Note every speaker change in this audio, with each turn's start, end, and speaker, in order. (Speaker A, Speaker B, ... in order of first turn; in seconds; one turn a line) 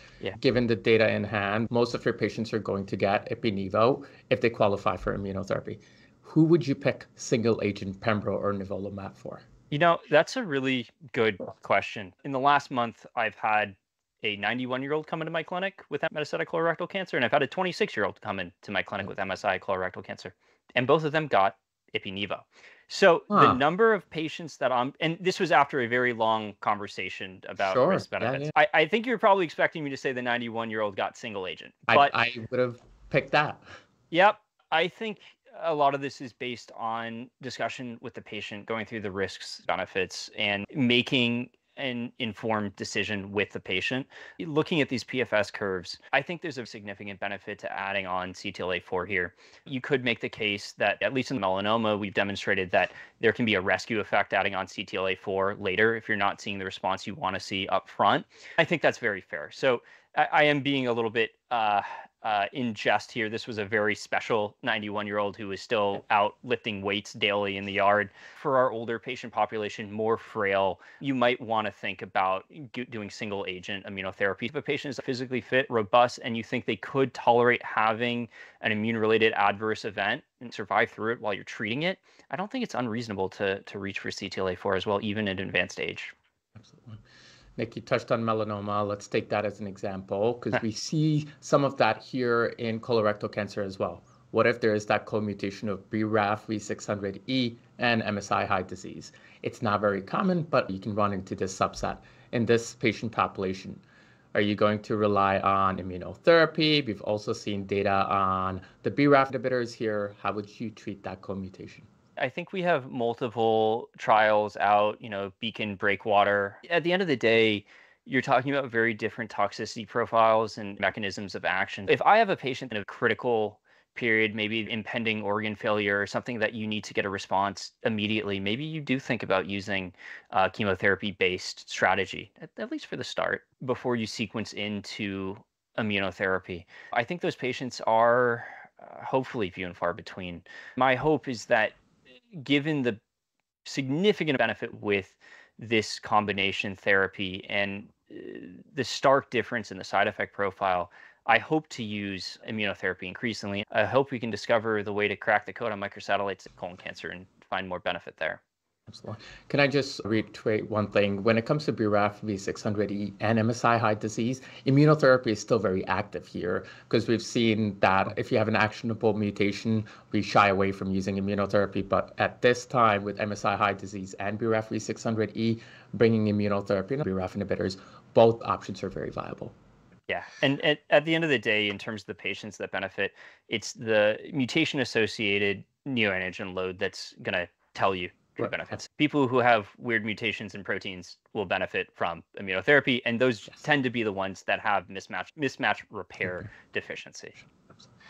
Speaker A: 0.4-9.4
Speaker B: 9.7-32.1
Speaker A: 23.3-23.6
Speaker A: 27.6-28.5
Speaker A: 31.9-33.6
Speaker B: 34.1-86.1
Speaker A: 86.6-87.0
Speaker A: 87.6-103.8
Speaker A: 104.3-111.9
Speaker B: 112.2-141.8
Speaker B: 142.4-143.0
Speaker B: 143.7-158.4
Speaker A: 158.9-179.6
Speaker B: 180.1-197.4